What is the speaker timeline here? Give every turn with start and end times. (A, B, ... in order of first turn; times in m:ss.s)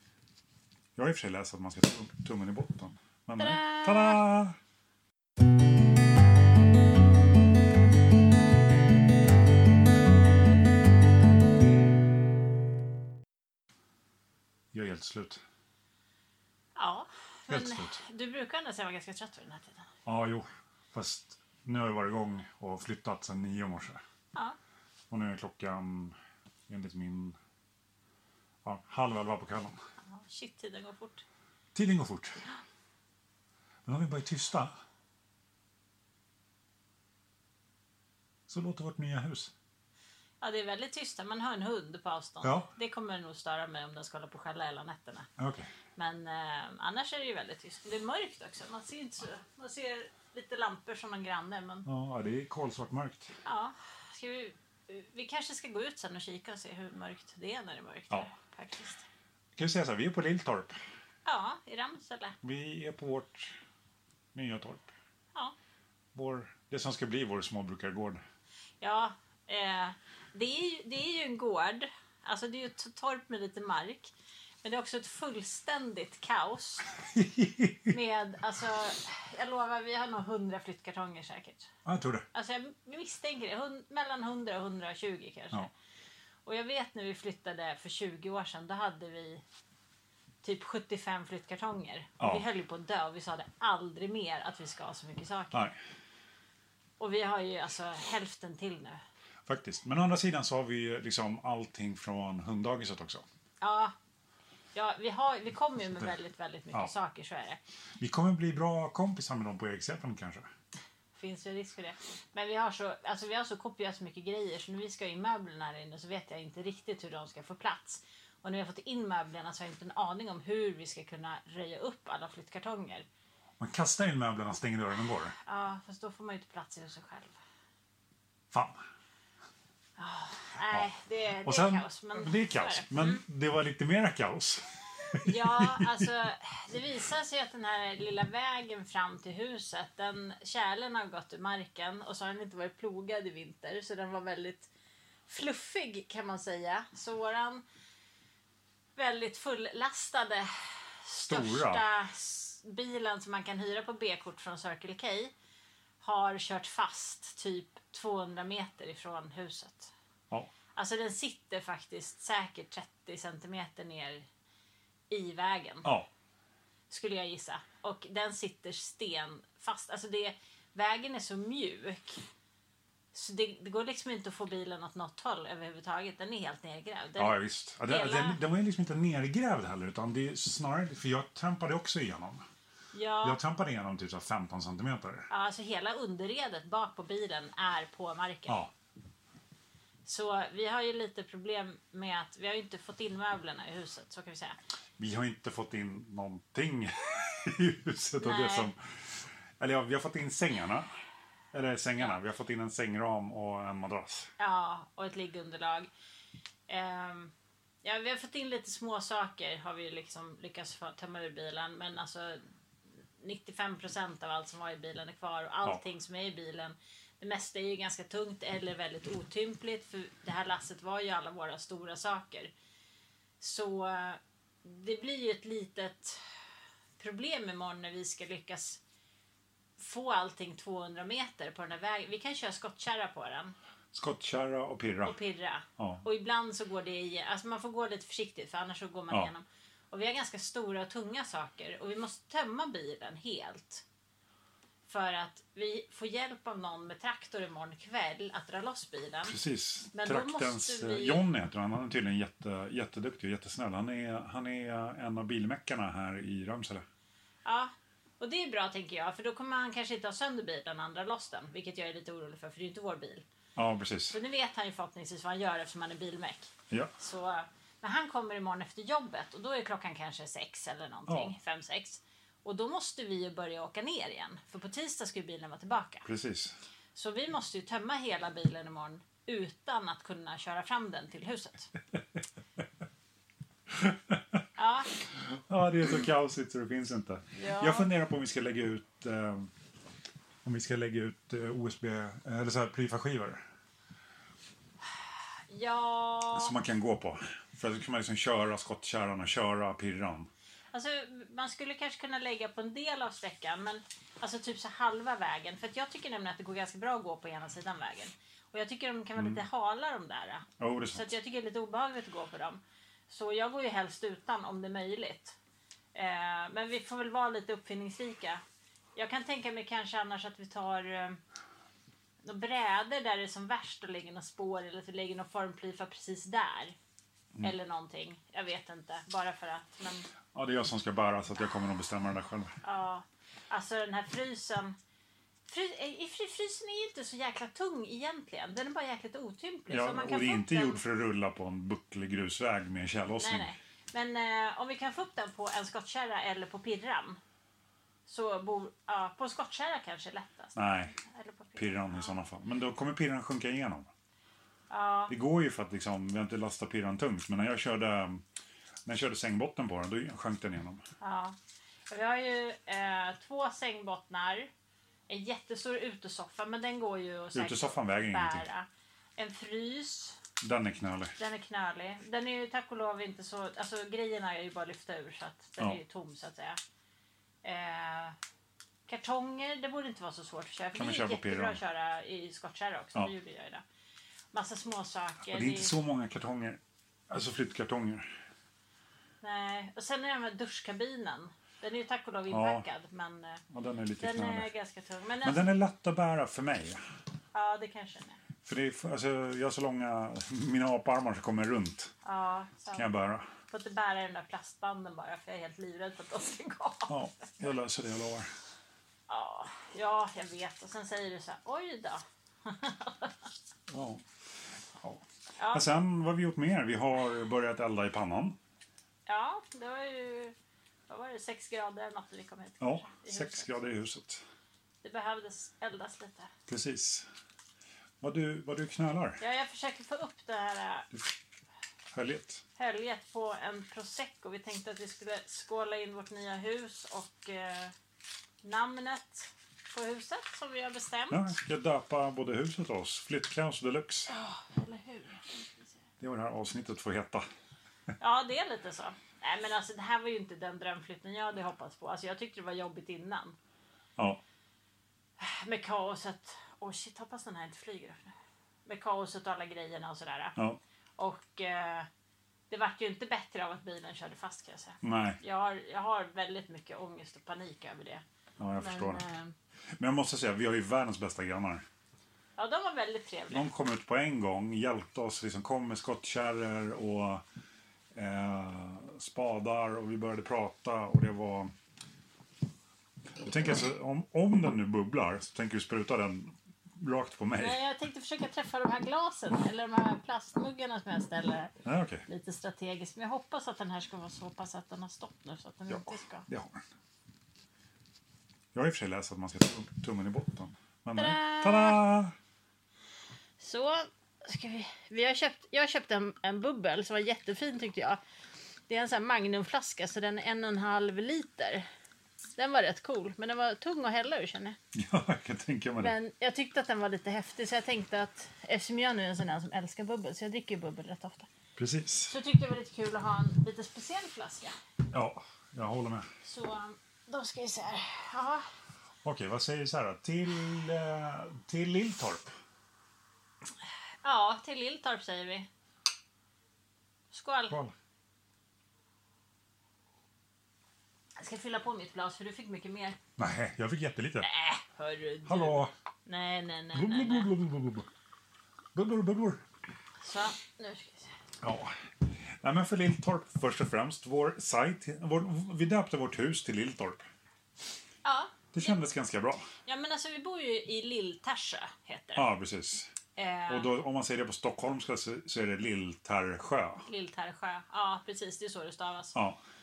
0:01.0-0:04.6 A
0:03.4-0:04.2 B
0:14.7-0:15.4 A
0:16.8-0:19.9 B
0:17.5-0:18.0 A
0:20.0-0:24.0 A
0:25.1-0:26.2 A
0:26.7-0:27.4 A
0:28.6-0:29.8 A
0:30.0-0:31.2 B
0:31.7-0:32.4 A
0:33.8-0:34.7 A
0:38.5-0:39.5 A
0:40.4-0:45.3 B
0:42.4-0:42.7 A
0:45.4-0:45.7 A
0:46.0-0:51.8 B
0:51.8-0:53.3 A
0:53.4-0:59.0 B
0:59.6-1:00.8 A
1:01.2-1:02.4 B
1:02.4-1:03.6 A
1:04.3-1:04.9 A
1:06.1-1:08.2 A
1:08.8-1:16.8 B
1:17.1-1:17.9 A
1:17.9-1:21.7 B
1:21.8-1:22.2 A
1:22.3-1:25.7 B
1:26.4-1:29.4 B
1:30.4-1:35.6 B
1:32.2-1:32.4 A
1:37.0-1:39.0 B
1:39.5-1:43.2 A
1:43.6-1:43.9 B
1:44.7-1:47.6 B
1:48.0-1:50.5 A
1:51.1-2:03.1 B
2:03.6-2:05.3 A
2:05.4-2:07.4 B
2:08.5-2:08.8 A
2:10.0-2:13.2 B
2:11.4-2:15.9 A
2:15.2-2:24.7 B
2:25.3-2:27.6 B
2:29.0-2:35.3 B
2:31.3-2:31.8 A
2:36.0-2:39.9 B
2:40.7-2:44.2 B
2:45.1-2:45.9 B
2:45.8-2:46.1 A
2:46.9-2:52.2 B
2:53.1-2:58.4 B
2:57.2-3:02.4 A
3:02.9-3:03.4 B
3:03.2-3:05.3 A
3:05.3-3:08.6 B
3:08.5-3:08.7 A
3:10.0-3:14.6 B
3:15.0-3:20.9 A
3:18.2-3:18.7 B
3:21.5-3:24.3 A
3:24.4-3:25.9 B
3:26.7-3:27.3 B
3:27.8-3:32.4 B
3:33.2-3:42.5 B
3:43.4-3:46.3 B
3:47.0-3:48.8 B
3:49.8-3:53.5 B
3:53.9-3:55.2 A
3:55.0-4:03.8 B
3:55.8-3:56.0 A
4:04.9-4:09.4 B
4:09.2-4:16.8 A
4:09.9-4:11.2 B
4:17.4-4:23.2 B
4:23.6-4:24.2 A
4:24.1-4:36.1 B
4:26.7-4:26.9 A
4:31.1-4:31.4 A
4:36.0-4:36.5 A
4:36.9-4:41.7 B
4:43.7-4:44.2 A
4:44.6-4:44.9 B
4:45.0-4:49.5 A
4:47.3-4:47.9 B
4:50.4-4:53.4 A
4:55.5-4:56.5 B
4:56.3-5:00.3 A
5:00.7-5:15.4 B
5:09.2-5:09.4 A
5:10.6-5:11.1 A
5:15.9-5:18.4 B
5:19.0-5:21.2 B
5:22.2-5:26.8 B
5:27.4-5:30.1 B
5:30.3-5:32.6 A
5:32.6-5:34.7 B
5:35.5-5:40.8 B
5:39.7-5:43.5 A
5:43.2-5:47.2 B
5:48.1-5:52.2 B
5:50.5-5:50.9 A
5:51.6-5:53.9 A
5:54.7-5:55.1 B
5:55.1-5:58.2 A
5:58.9-6:00.8 A
6:01.0-6:01.4 B
6:01.9-6:04.5 B
6:05.1-6:10.2 B
6:07.3-6:08.5 A
6:10.4-6:11.2 A
6:11.2-6:16.6 B
6:17.4-6:18.2 B
6:18.8-6:23.6 B
6:20.8-6:21.6 A
6:24.3-6:25.7 B
6:25.3-6:28.1 A
6:29.2-6:33.4 B
6:32.3-6:32.6 A
6:33.5-6:34.5 A
6:34.0-6:35.4 B
6:35.2-6:36.8 A
6:37.3-6:38.2 B
6:38.4-6:41.9 A
6:42.0-6:42.8 B
6:42.8-6:43.3 A
6:43.5-6:47.0 B
6:46.9-6:48.3 A
6:49.1-6:53.3 B
6:53.7-6:58.4 A
6:55.4-6:55.6 B
6:59.0-7:00.3 B
7:00.9-7:03.6 B
7:02.6-7:04.2 A
7:04.8-7:06.3 B
7:06.5-7:07.1 A
7:08.0-7:09.2 A
7:09.2-7:10.9 B
7:11.9-7:12.4 A
7:12.6-7:17.7 B
7:18.4-7:21.3 B
7:21.1-7:24.1 A
7:24.1-7:25.8 B
7:26.0-7:27.2 A
7:28.0-7:33.4 B
7:35.2-7:38.1 B
7:38.6-7:40.4 B
7:41.0-7:41.9 B
7:42.5-7:48.0 B
7:44.8-7:45.2 A
7:48.4-7:49.0 A
7:48.6-7:49.3 B
7:49.8-7:51.6 A
7:52.4-7:53.5 B
7:53.3-7:57.2 A
7:57.9-8:01.5 A
8:03.2-8:07.6 A
8:07.4-8:11.5 B
8:11.6-8:12.0 A
8:12.1-8:16.3 B
8:15.7-8:16.6 A
8:18.5-8:22.1 A
8:21.0-8:21.8 B
8:23.4-8:28.0 B
8:28.7-8:31.6 B
8:32.4-8:34.6 B
8:34.7-8:35.9 A
8:35.8-8:41.3 B
8:41.6-8:42.1 A
8:42.1-8:44.6 B
8:44.9-8:46.1 A
8:46.2-8:48.5 B
8:49.0-8:52.3 A
8:54.0-8:55.5 B
8:57.1-8:57.6 B
8:57.5-8:57.7 A
9:01.2-9:03.0 B
9:03.2-9:04.3 A
9:04.2-9:07.3 B
9:05.2-9:05.7 A
9:06.7-9:07.9 A
9:08.7-9:09.4 A
9:10.0-9:11.1 B
9:11.4-9:17.0 A
9:18.0-9:18.8 B
9:18.5-9:19.5 A
9:19.6-9:22.3 B
9:22.1-9:22.9 A
9:23.2-9:23.7 B
9:23.5-9:26.8 A
9:26.9-9:29.1 B
9:29.1-9:29.4 A